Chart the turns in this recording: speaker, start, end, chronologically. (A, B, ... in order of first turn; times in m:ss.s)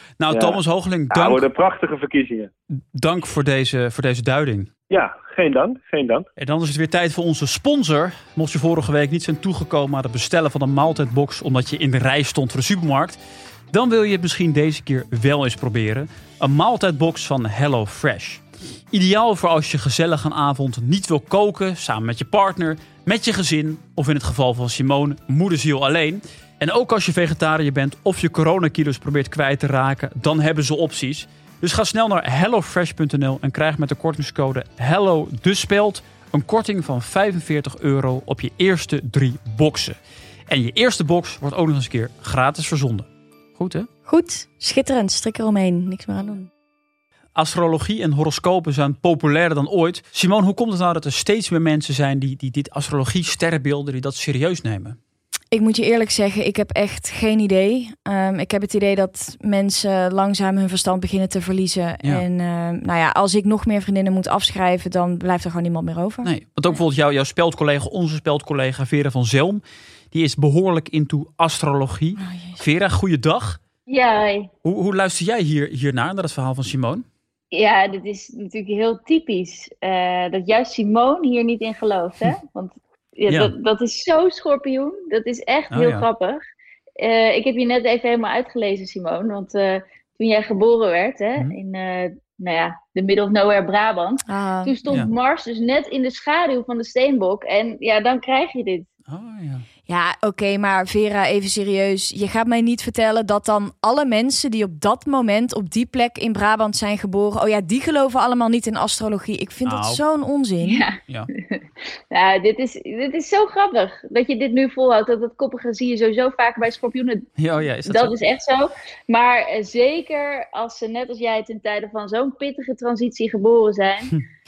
0:00.2-0:01.5 A
0:00.3-0:00.6 B
0:01.1-0:02.5 B
0:02.9-0:04.7 A
0:04.9-0:06.3 B
0:06.4-0:13.2 A
0:13.7-0:40.0 A
0:40.5-0:43.9 A
0:44.1-0:46.5 C
0:47.4-0:55.0 A
0:55.5-1:06.3 C
1:06.2-1:13.6 A
1:12.2-1:12.6 C
1:13.9-1:14.5 D
1:14.6-1:17.0 A
1:17.5-1:26.4 D
1:23.3-1:23.5 A
1:25.7-1:26.1 A
1:27.0-1:38.9 D
1:34.3-1:34.8 C
1:39.1-1:39.7 A
1:39.9-1:50.8 C
1:49.7-1:50.0 A
1:50.6-1:57.2 D
1:57.4-1:58.2 A
1:57.8-2:04.2 D